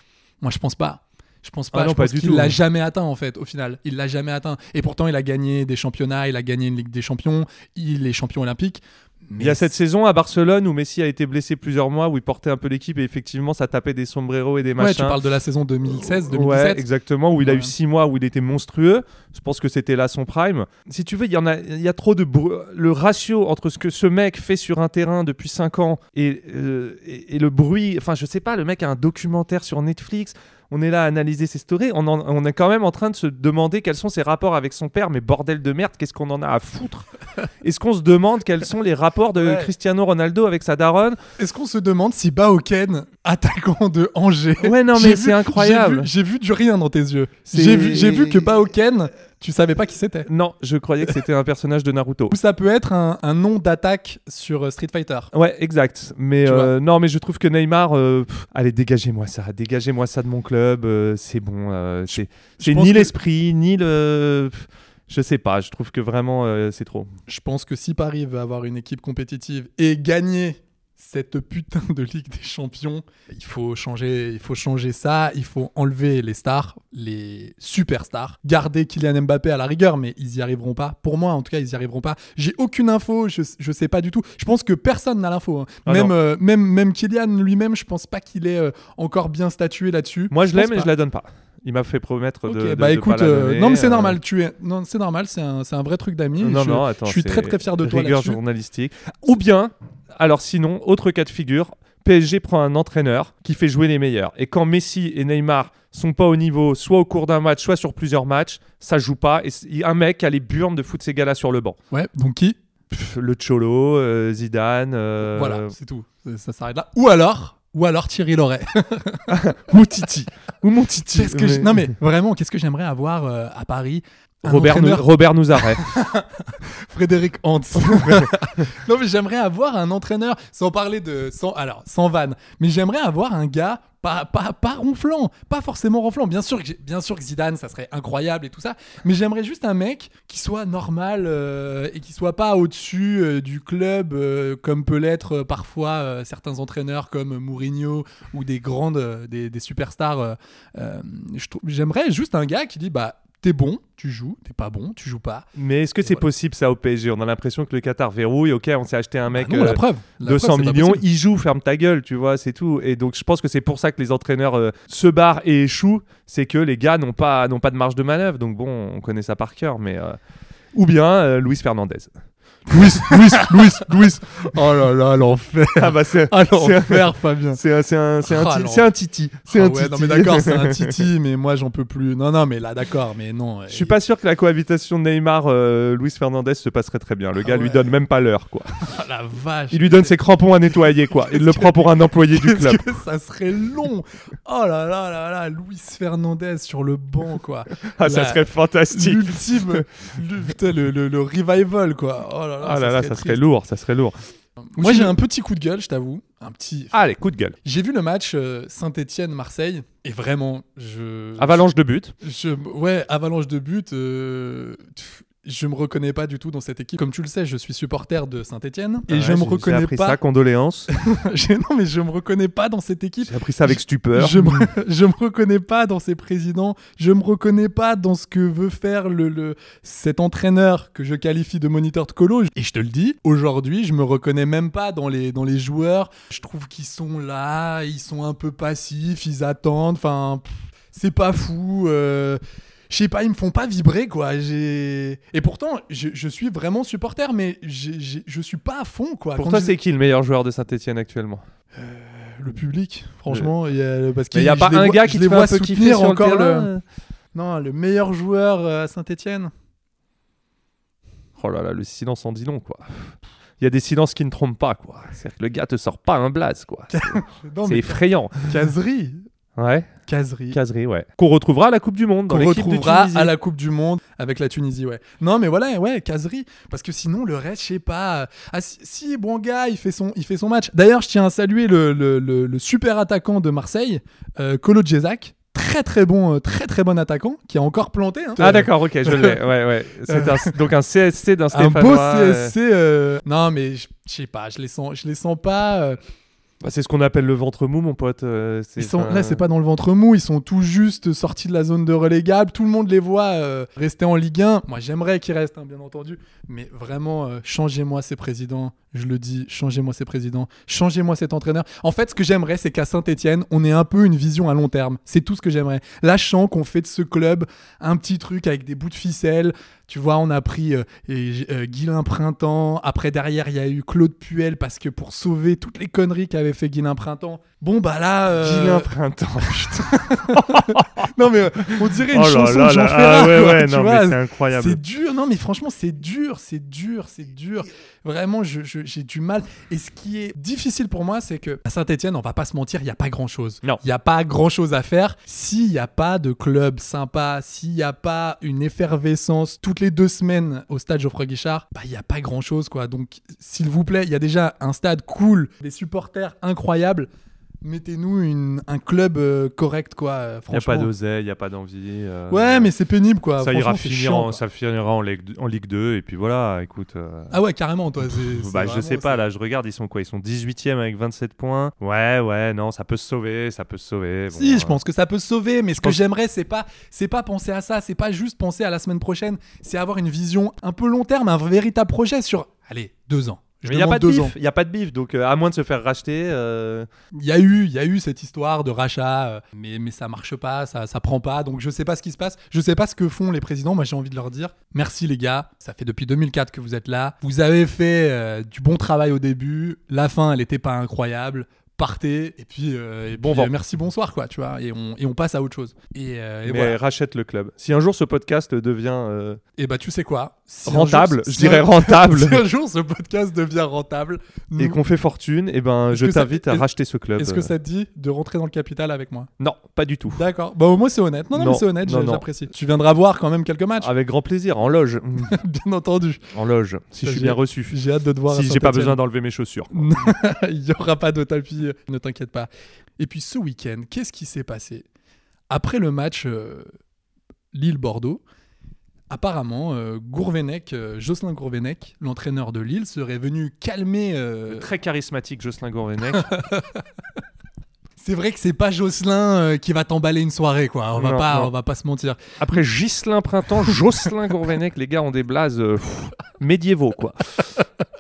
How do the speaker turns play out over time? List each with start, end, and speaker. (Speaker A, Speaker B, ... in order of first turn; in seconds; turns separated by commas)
Speaker A: 0.4-9.7, Speaker B: 1.7-2.6, Speaker B: 9.4-15.2, Speaker A: 14.8-16.9, Speaker B: 15.8-37.1, Speaker A: 17.4-17.7, Speaker B: 37.6-41.2, Speaker A: 39.4-39.7, Speaker A: 41.4-50.3, Speaker B: 44.6-46.1, Speaker B: 47.5-48.5, Speaker B: 50.3-52.4, Speaker A: 52.3-55.3, Speaker B: 55.3-67.1, Speaker A: 56.4-56.7, Speaker A: 62.1-63.1, Speaker A: 67.3-90.9, Speaker B: 85.9-86.1, Speaker B: 90.3-94.2, Speaker A: 92.5-98.4, Speaker B: 96.4-111.8, Speaker A: 111.9-112.6, Speaker B: 112.9-115.7, Speaker A: 115.3-119.4, Speaker B: 119.3-122.0, Speaker A: 121.1-155.5, Speaker B: 124.5-125.8, Speaker B: 127.8-128.7, Speaker B: 155.6-170.2, Speaker A: 159.3-161.0, Speaker B: 170.7-172.1, Speaker A: 172.7-177.6, Speaker B: 172.7-174.2, Speaker B: 175.8-181.0, Speaker A: 178.2-178.9, Speaker A: 179.4-183.9, Speaker B: 183.7-188.8, Speaker A: 187.4-187.9, Speaker A: 188.8-190.2, Speaker B: 189.7-192.8, Speaker A: 190.8-203.4, Speaker B: 197.8-199.9, Speaker B: 202.6-204.2, Speaker A: 204.7-206.9, Speaker B: 204.8-205.2, Speaker B: 206.9-207.6, Speaker A: 207.6-220.2, Speaker B: 211.4-212.1, Speaker B: 219.1-220.9, Speaker A: 220.9-249.7, Speaker B: 223.2-224.7, Speaker B: 249.4-251.5, Speaker A: 251.7-256.7, Speaker B: 254.3-256.8, Speaker A: 257.3-259.5, Speaker B: 261.4-268.5, Speaker A: 266.9-269.2, Speaker B: 269.6-269.9, Speaker A: 270.1-270.6, Speaker B: 270.5-273.3, Speaker A: 272.3-289.4, Speaker B: 288.4-292.5, Speaker A: 290.1-290.6, Speaker A: 291.5-296.0, Speaker B: 296.6-299.4, Speaker A: 298.8-328.9, Speaker B: 328.4-334.8, Speaker A: 329.5-357.1, Speaker A: 357.6-360.9, Speaker B: 360.5-362.7, Speaker A: 362.3-364.4, Speaker B: 363.4-367.4, Speaker A: 367.3-369.2, Speaker B: 368.1-374.8, Speaker A: 374.3-384.3, Speaker B: 383.6-386.9, Speaker A: 387.1-406.8, Speaker B: 403.2-403.5, Speaker B: 406.5-409.4, Speaker A: 409.6-414.8, Speaker B: 410.7-412.4, Speaker B: 414.6-417.5, Speaker A: 415.9-419.3, Speaker B: 419.4-420.2, Speaker A: 420.1-423.9, Speaker B: 421.3-422.3, Speaker B: 423.8-425.3, Speaker A: 425.3-426.2, Speaker B: 426.3-430.0, Speaker A: 427.0-429.0, Speaker A: 429.7-434.9, Speaker A: 435.5-436.7, Speaker A: 437.5-438.2, Speaker A: 439.1-444.7, Speaker B: 444.5-446.3, Speaker A: 446.2-446.8, Speaker A: 448.0-452.4, Speaker B: 451.0-451.5, Speaker B: 452.4-457.5